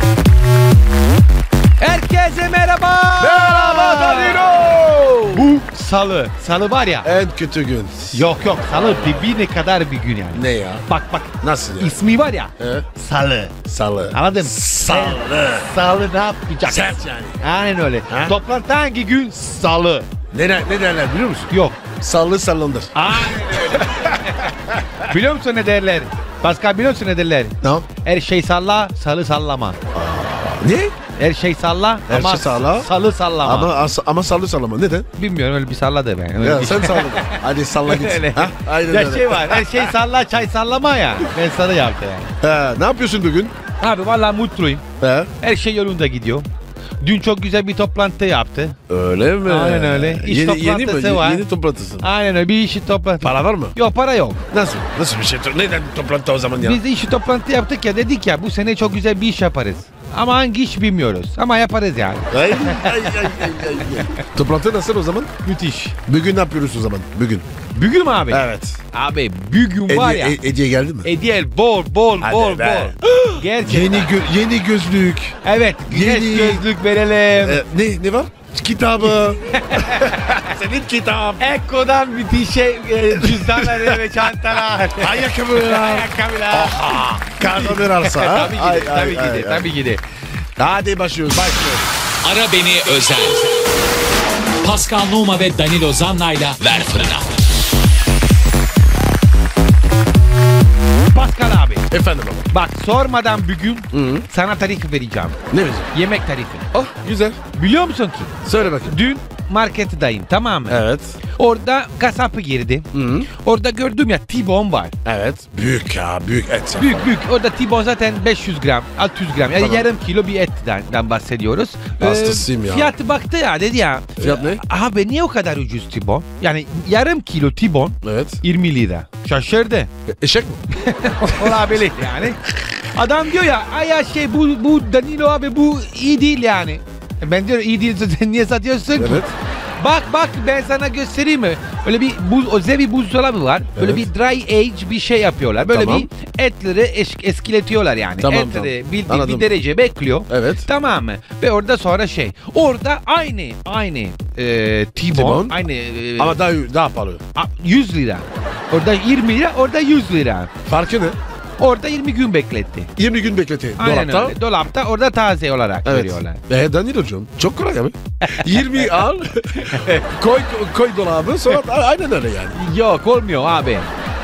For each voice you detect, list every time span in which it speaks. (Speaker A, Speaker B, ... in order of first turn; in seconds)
Speaker A: 1.8-4.4, 5.3-7.1, 8.1-13.5, 14.1-20.1, 21.5-21.8, 22.9-29.8, 31.2-33.7, 35.2-42.3, 43.8-44.8, 45.4-46.5, 47.0-48.8, 49.5-51.4, 52.0-54.4, 56.6-64.2, 65.4-66.0, 67.7-70.4, 71.0-74.1, 75.4-77.6, 79.5-80.4, 81.4-90.0, 101.1-101.9, 102.5-105.4, 105.9-106.7, 107.5-110.8, 111.4-114.9, 116.8-129.9, 130.8-132.4, 132.9-139.3, 139.8-156.4, 157.3-160.5, 161.6-162.9, 163.8-166.4, 168.2-168.8, 169.5-170.1, 172.5-173.9
Speaker B: 3.2-5.6, 7.0-9.3, 10.3-10.8, 11.4-11.9, 12.6-12.8, 13.6-15.7, 16.7-17.4, 18.1-18.3, 20.3-25.1, 27.6-27.9, 29.9-30.9, 32.1-32.9, 33.4-35.1, 36.4-39.9, 42.4-43.5, 45.0-45.3, 48.9-52.0, 53.2-53.7, 54.5-56.8, 62.3-65.3, 66.0-67.5, 68.3-68.8, 69.9-71.1, 72.2-75.4, 75.9-76.6, 77.4-81.4, 83.1-84.0, 84.9-89.7, 90.6-91.9, 101.9-102.5, 103.9-104.2, 105.5-105.9, 106.7-107.4, 108.4-109.0, 110.7-111.2, 112.9-113.3, 115.0-117.1, 119.5-119.9, 122.0-122.9, 124.2-124.6, 128.0-128.4, 130.1-130.7, 131.4-132.3, 138.9-139.3, 143.8-144.1, 145.6-146.1, 148.2-149.5, 150.3-150.7, 155.1-155.6, 156.2-157.2, 160.7-161.2, 163.0-164.3, 165.8-172.6
Speaker C: 92.2-93.7, 94.6-97.4